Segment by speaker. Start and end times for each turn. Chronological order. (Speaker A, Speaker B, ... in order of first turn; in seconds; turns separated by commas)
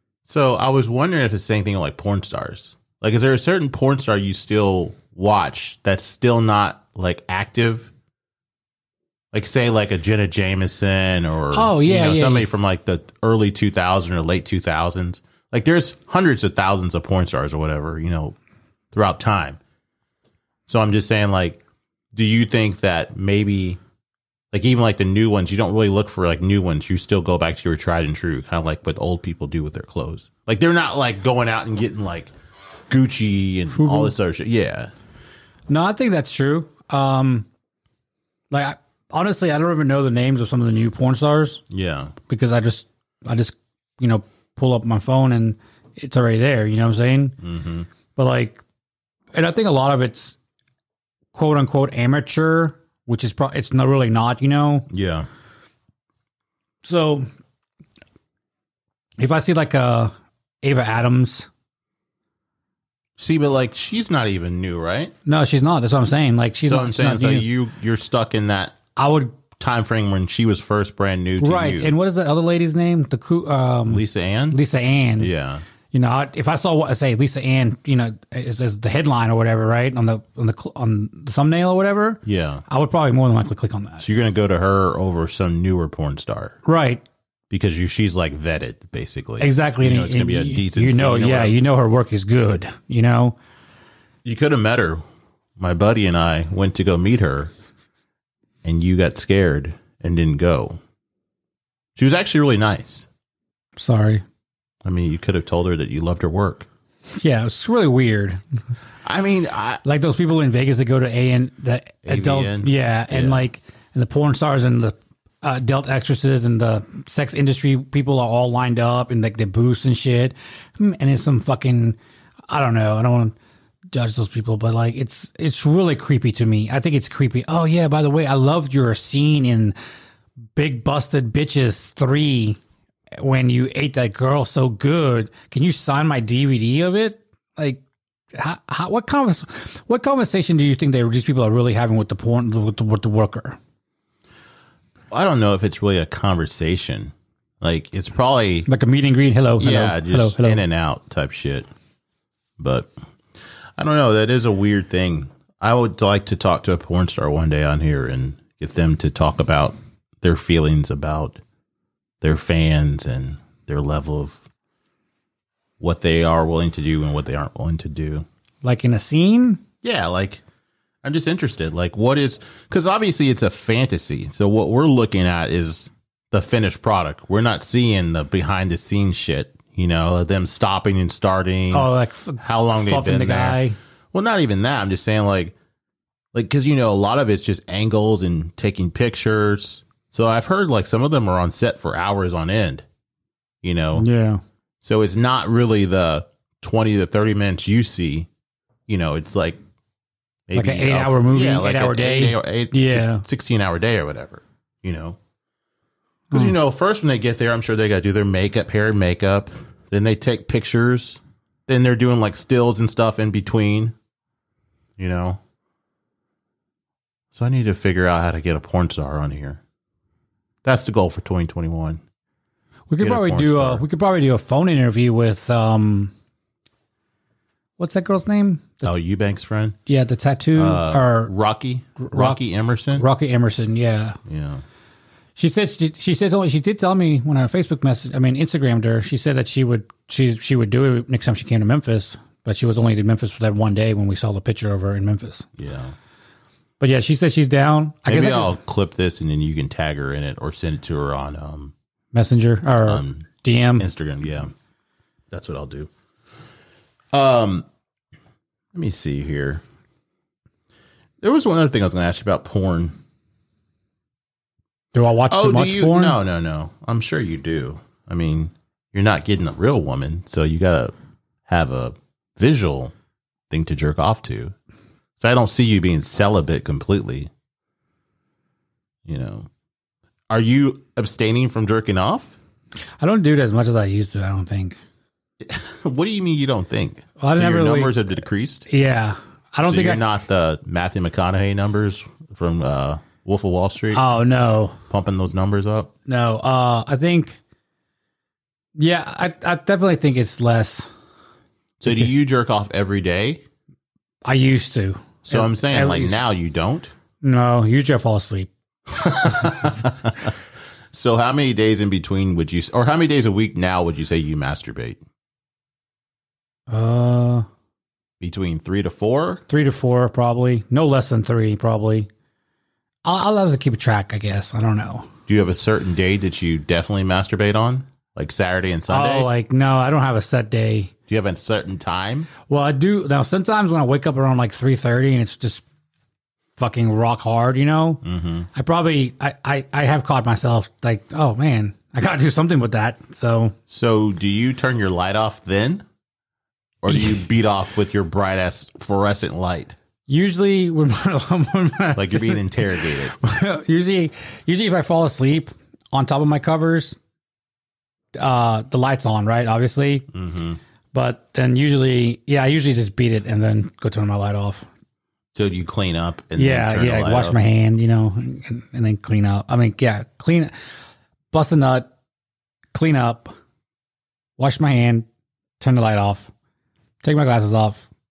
Speaker A: 0.2-7.9, Speaker A: 9.3-18.4, Speaker B: 11.5-12.5, Speaker A: 18.9-19.6, Speaker A: 20.7-21.6, Speaker A: 22.1-23.8, Speaker A: 24.5-32.3, Speaker A: 32.9-34.9, Speaker B: 33.7-34.1, Speaker B: 35.7-37.5, Speaker B: 38.5-41.6, Speaker A: 41.7-42.1, Speaker B: 42.3-47.4, Speaker A: 47.4-47.9, Speaker B: 48.1-48.6, Speaker B: 49.3-50.4, Speaker B: 51.3-54.9, Speaker A: 54.9-55.3, Speaker B: 56.8-57.3, Speaker B: 59.2-61.5, Speaker A: 63.2-65.1, Speaker B: 65.2-67.5, Speaker A: 66.6-68.8, Speaker B: 69.0-69.4, Speaker A: 69.5-71.9, Speaker B: 71.4-75.3, Speaker A: 73.9-74.6, Speaker A: 75.2-75.6, Speaker B: 75.9-84.0, Speaker A: 82.2-82.6, Speaker A: 84.0-86.6, Speaker B: 86.6-87.0, Speaker A: 87.5-91.5, Speaker B: 89.4-93.3, Speaker A: 94.2-95.0, Speaker A: 95.6-97.5, Speaker A: 98.6-100.8, Speaker A: 102.0-103.1, Speaker B: 103.8-104.2, Speaker A: 104.8-106.7, Speaker B: 107.2-108.4, Speaker A: 109.0-109.8, Speaker B: 109.8-122.0, Speaker A: 112.0-113.4, Speaker B: 122.5-123.3, Speaker B: 123.9-129.8, Speaker B: 130.6-132.6, Speaker B: 133.2-137.8, Speaker B: 138.3-143.6, Speaker A: 145.1-148.7, Speaker B: 148.7-150.6, Speaker A: 149.6-151.7, Speaker A: 152.6-152.9, Speaker A: 153.8-161.4, Speaker A: 162.2-164.4, Speaker A: 165.8-168.2, Speaker B: 168.6-169.6, Speaker A: 169.8-170.4, Speaker A: 171.0-183.6, Speaker B: 181.7-183.8, Speaker A: 184.1-185.5, Speaker A: 186.3-192.8, Speaker A: 193.6-194.1, Speaker B: 193.9-194.4, Speaker A: 194.8-198.3, Speaker A: 198.9-199.6, Speaker A: 200.5-205.2, Speaker B: 200.5-203.2, Speaker A: 206.3-213.9, Speaker A: 215.0-215.4, Speaker A: 217.3-219.6, Speaker A: 220.6-222.0, Speaker B: 222.9-226.1, Speaker A: 223.0-223.8, Speaker B: 227.8-228.9, Speaker A: 228.8-229.8, Speaker B: 229.9-231.3, Speaker A: 230.6-233.0, Speaker B: 232.0-232.4, Speaker B: 232.9-234.2, Speaker A: 234.2-234.6, Speaker B: 235.3-245.5, Speaker A: 245.6-245.9, Speaker B: 246.8-248.5, Speaker A: 248.1-251.7, Speaker B: 252.1-253.8, Speaker A: 252.8-254.5, Speaker A: 255.3-255.9, Speaker A: 257.1-257.6, Speaker A: 258.7-259.6, Speaker A: 261.2-263.0, Speaker B: 264.9-266.2, Speaker A: 265.3-270.9, Speaker A: 271.5-272.9, Speaker A: 273.5-274.5, Speaker A: 275.2-277.3, Speaker A: 279.1-279.5, Speaker A: 280.3-282.3, Speaker B: 283.0-284.8, Speaker A: 285.4-288.7, Speaker B: 287.2-288.0, Speaker B: 288.7-290.0, Speaker A: 289.6-294.0, Speaker B: 293.9-294.8, Speaker A: 294.9-295.9, Speaker B: 296.1-297.4, Speaker B: 298.8-300.9, Speaker A: 301.8-303.4, Speaker B: 304.2-306.2, Speaker A: 305.2-306.9, Speaker B: 307.2-308.5, Speaker A: 308.9-310.3, Speaker A: 310.9-315.0, Speaker B: 316.7-317.4, Speaker A: 318.2-319.4, Speaker B: 319.5-322.1, Speaker B: 323.0-325.1, Speaker A: 325.3-329.3, Speaker B: 328.9-330.9, Speaker A: 331.1-332.3, Speaker B: 332.5-335.6, Speaker B: 336.6-338.0, Speaker A: 338.0-338.5, Speaker B: 338.5-343.5, Speaker A: 343.7-345.8, Speaker A: 346.8-349.8, Speaker B: 350.1-357.0, Speaker A: 351.9-353.1, Speaker B: 358.1-360.1, Speaker A: 360.1-360.6, Speaker B: 360.9-364.7, Speaker A: 365.3-367.4, Speaker B: 366.4-370.5, Speaker B: 371.3-371.9, Speaker B: 372.7-373.3, Speaker B: 374.4-375.1, Speaker B: 375.6-376.3, Speaker B: 377.0-377.9